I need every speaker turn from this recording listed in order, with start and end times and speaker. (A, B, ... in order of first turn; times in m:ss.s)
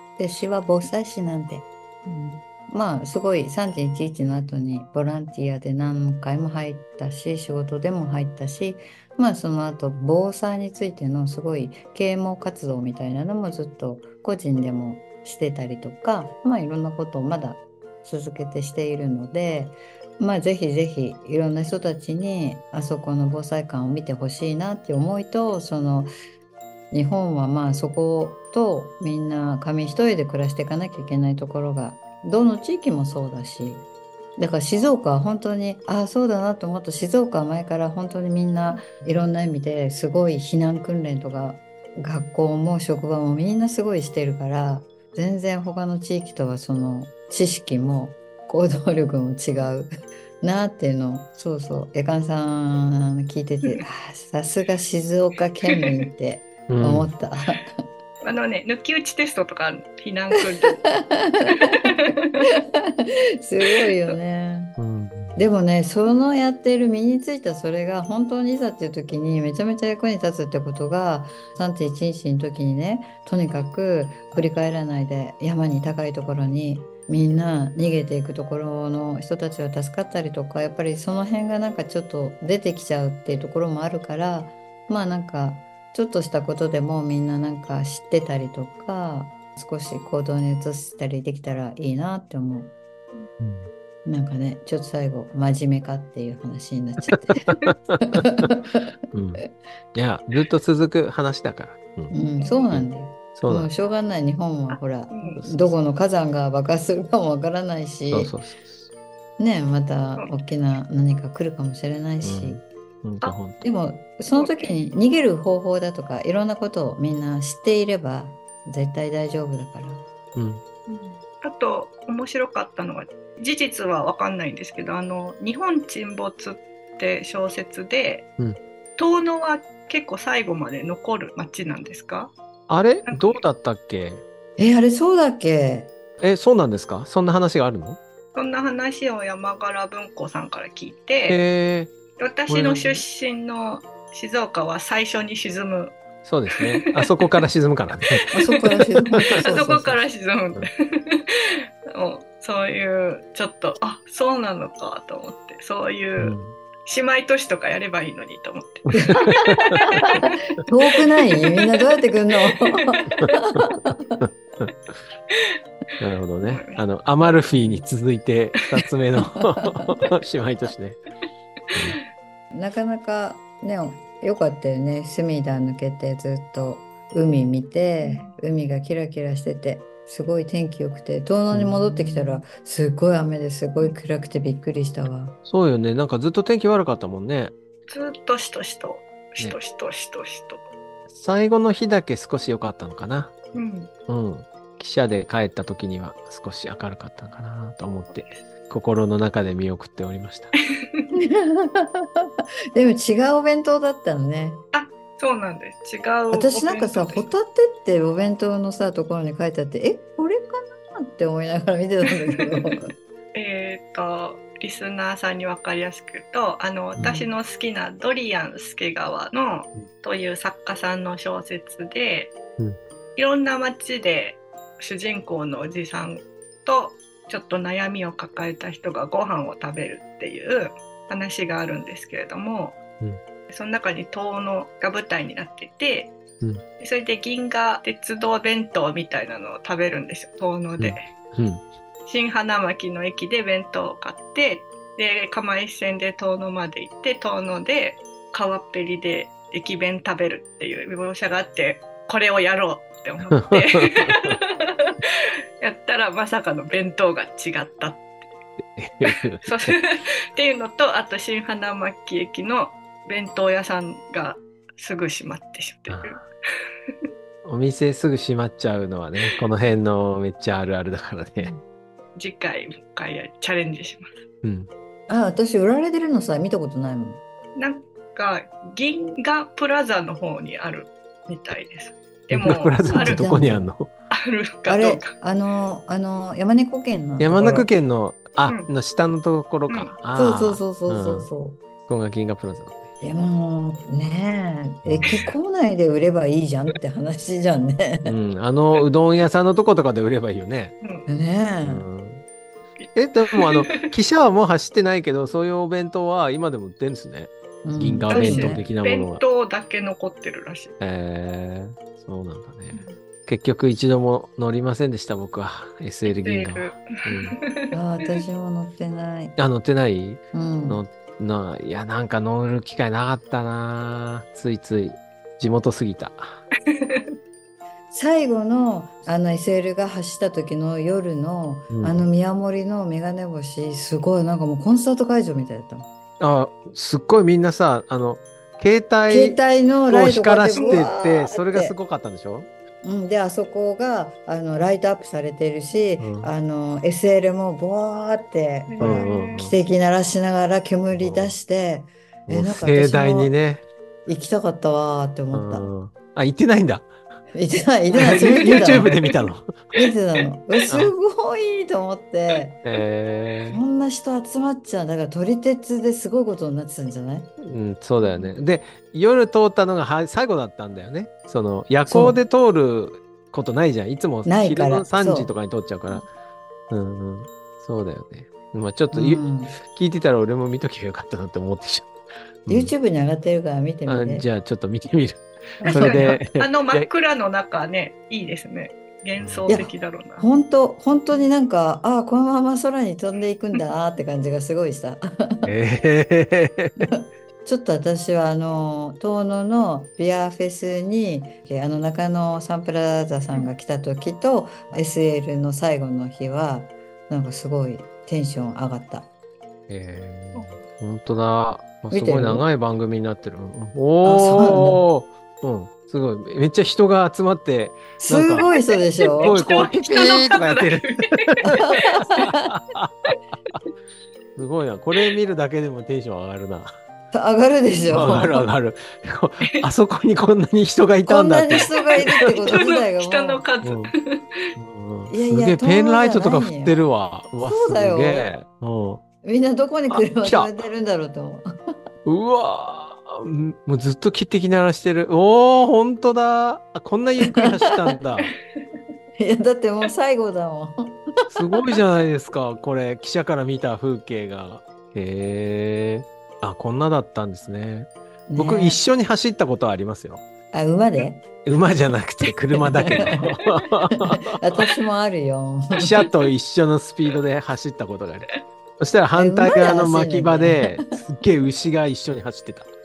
0:00.2-0:26.1 A
0:26.9-0:33.8 A
0:34.4-0:49.9 A
0:50.4-0:57.8 A
0:56.7-0:57.1 B
0:58.2-1:00.8 C
1:00.8-1:04.8 A
1:02.1-1:02.4 C
1:03.7-1:04.1 C
1:04.8-1:05.5 B
1:05.4-1:32.7 A
1:33.4-1:33.7 B
1:34.0-1:38.9 A
1:37.5-1:38.5 B
1:39.1-1:39.4 B
1:39.9-1:42.1 B
1:42.1-1:48.4 A
1:42.4-1:42.7 C
1:42.7-1:43.7 B
1:44.7-1:45.4 C
1:48.1-1:48.9 B
1:49.4-1:52.6 A
1:52.2-1:53.6 B
1:53.6-2:00.0 A
1:54.3-1:54.8 C
2:00.4-2:00.6 B
2:00.9-2:08.3 C
2:09.0-2:12.3 C
2:12.7-2:14.2 B
2:13.1-2:13.4 C
2:14.6-2:15.9 A
2:16.2-2:18.0 B
2:18.4-2:21.4 C
2:21.3-2:21.9 B
2:22.2-2:26.0 C
2:22.5-2:23.0 B
2:26.2-2:28.3 B
2:26.6-2:27.4 C
2:28.3-2:40.3 C
2:28.3-2:30.0 A
2:29.1-2:29.4 B
2:36.2-2:36.6 B
2:38.9-2:44.2 A
2:39.3-2:40.1 B
2:41.2-2:43.1 C
2:44.2-2:44.7 B
2:46.0-2:51.0 B
2:46.4-2:47.8 C
2:49.5-2:49.9 A
2:51.7-2:52.0 B
2:52.5-3:05.4 A
2:58.0-2:58.3 C
3:01.5-3:02.4 B
3:05.4-3:07.5 B
3:07.9-3:10.6 C
3:11.1-3:13.3 B
3:13.6-3:13.9 C
3:14.1-3:20.5 B
3:18.1-3:18.4 C
3:20.8-3:21.1 C
3:21.1-3:24.6 A
3:24.7-3:27.3 C
3:26.3-3:32.9 A
3:32.4-3:32.8 C
3:33.3-3:42.4 C
3:37.0-3:37.3 B
3:43.2-3:52.8 C
3:53.5-3:56.2 C
3:56.8-4:01.1 C
4:00.8-4:01.6 B
4:02.1-4:18.2 C
4:13.3-4:14.4 B
4:18.8-4:19.8 B
4:19.1-4:26.3 C
4:25.9-4:26.2 B
4:27.4-4:31.5 B
4:32.2-4:34.2 C
4:34.4-4:34.7 B
4:35.1-4:37.2 A
4:37.6-4:43.2 C
4:42.3-4:43.9 B
4:42.9-4:43.7 A
4:44.1-4:45.1 C
4:44.7-4:47.7 A
4:47.2-4:51.3 B
4:49.7-4:50.0 C
4:50.1-4:51.6 A
4:51.9-4:52.9 B
4:53.0-4:58.1 A
4:54.8-4:55.4 B
4:58.1-5:00.7 B
5:01.1-5:01.9 A
5:01.7-5:02.2 B
5:02.8-5:03.9 C
5:03.0-5:09.2 B
5:07.6-5:08.6 A
5:08.1-5:10.7 C
5:10.8-5:17.4 B
5:16.1-5:18.2 C
5:17.7-5:19.4 A
5:19.4-5:26.4 B
5:20.3-5:20.8 A
5:26.7-5:27.1 C
5:27.9-5:35.9 A
5:31.7-5:32.1 B
5:36.2-5:42.5 B
5:39.1-5:41.8 A
5:40.6-5:40.9 C
5:42.8-5:53.3 A
5:46.0-5:46.3 B
5:48.7-5:49.5 C
5:48.8-5:49.6 B
5:50.9-5:51.4 B
5:52.3-5:53.6 B
5:54.1-5:55.7 A
5:55.3-5:56.9 B
5:57.3-5:59.0 A
5:57.9-5:59.7 B
5:58.1-5:59.1 C
5:59.8-6:02.6 A
6:02.6-6:03.6 B
6:03.5-6:07.3 A
6:07.4-6:16.0 B
6:08.1-6:08.3 C
6:11.9-6:12.2 A
6:14.2-6:15.3 A
6:16.7-6:21.9 B
6:18.9-6:19.5 A
6:22.5-6:22.7 B
6:22.5-6:24.3 A
6:23.9-6:26.9 B
6:25.7-6:26.1 A
6:25.7-6:30.3 C
6:29.2-6:29.6 B
6:29.5-6:35.5 A
6:35.4-6:36.9 B
6:36.8-6:49.1 A
6:49.7-6:58.5 B
6:50.3-6:50.6 C
6:51.9-6:52.5 A
6:54.0-6:54.8 A
6:58.0-6:59.4 A
6:58.4-7:01.6 C
6:59.2-7:03.1 B
7:01.4-7:02.5 A
7:04.4-7:06.8 B
7:07.1-7:08.4 A
7:07.9-7:12.6 B
7:11.0-7:13.4 A
7:11.5-7:14.5 C
7:13.6-7:13.9 B
7:14.6-7:19.0 B
7:15.1-7:16.8 A
7:17.4-7:18.3 A
7:19.2-7:21.4 A
7:19.9-7:20.5 B
7:22.0-7:28.3 B
7:27.2-7:28.0 A
7:29.2-7:31.7 A
7:31.3-7:40.2 B
7:38.3-7:38.8 A
7:40.5-7:41.2 A
7:41.4-7:44.3 B
7:42.6-7:43.2 A
7:43.9-7:45.9 A
7:45.8-7:52.7 B
7:49.2-7:50.8 A